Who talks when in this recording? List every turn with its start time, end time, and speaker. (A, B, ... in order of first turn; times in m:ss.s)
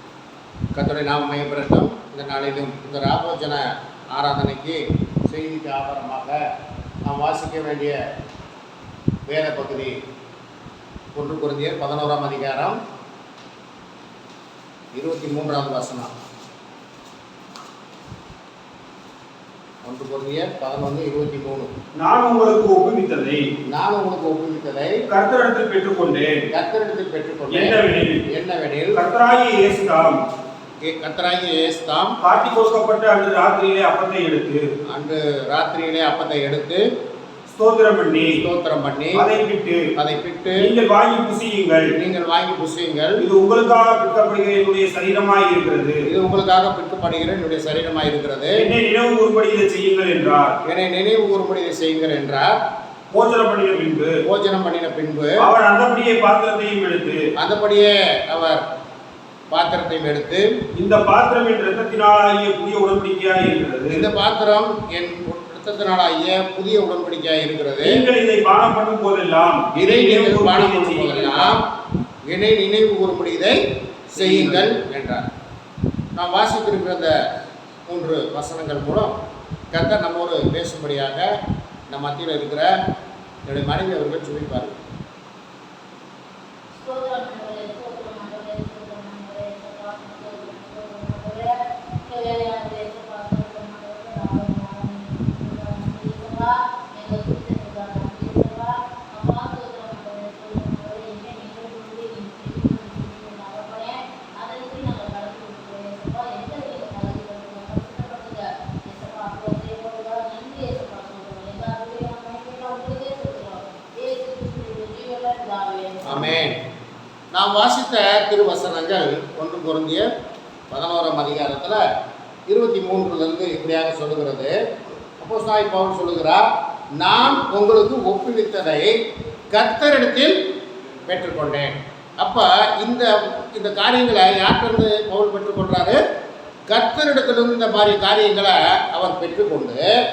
0:00.8-0:06.4 A
0:07.1-0:08.0 A
0:09.3-0:10.0 A
0:11.2-0:12.8 A
0:15.0-0:16.1 A
0:19.8-0:21.7 A
0:22.0-0:23.5 B
0:23.7-0:25.0 A
0:25.1-0:26.5 B
0:26.5-0:29.0 A
0:27.5-0:28.2 B
0:28.9-0:30.2 B
0:30.8-0:32.2 A
0:32.2-0:34.6 B
0:34.9-0:36.8 A
0:37.5-0:38.4 B
0:38.3-0:39.2 A
0:39.2-0:39.9 B
0:40.0-0:40.7 A
0:40.6-0:41.9 B
0:41.9-0:43.2 A
0:43.2-0:46.0 B
0:46.1-0:48.7 A
0:48.6-0:50.6 B
0:50.6-0:52.6 A
0:53.1-0:54.2 B
0:54.2-0:55.4 A
0:55.4-0:57.3 B
0:57.4-0:58.6 A
0:59.5-1:00.5 A
1:00.8-1:04.0 B
1:03.9-1:08.0 A
1:07.8-1:11.6 B
1:09.8-1:11.6 A
1:12.3-1:15.3 A
1:14.2-1:14.7 B
1:16.2-1:17.1 A
1:17.9-1:19.2 A
1:19.7-1:21.3 A
1:21.9-1:22.7 A
1:23.5-1:24.8 A
1:26.8-1:56.5 C
1:56.1-1:56.6 A
1:57.3-2:00.1 A
2:00.7-2:01.8 A
2:02.5-2:04.5 A
2:05.2-2:06.5 A
2:07.0-2:09.0 A
2:09.5-2:10.4 A
2:11.1-2:16.0 A
2:16.7-2:19.8 A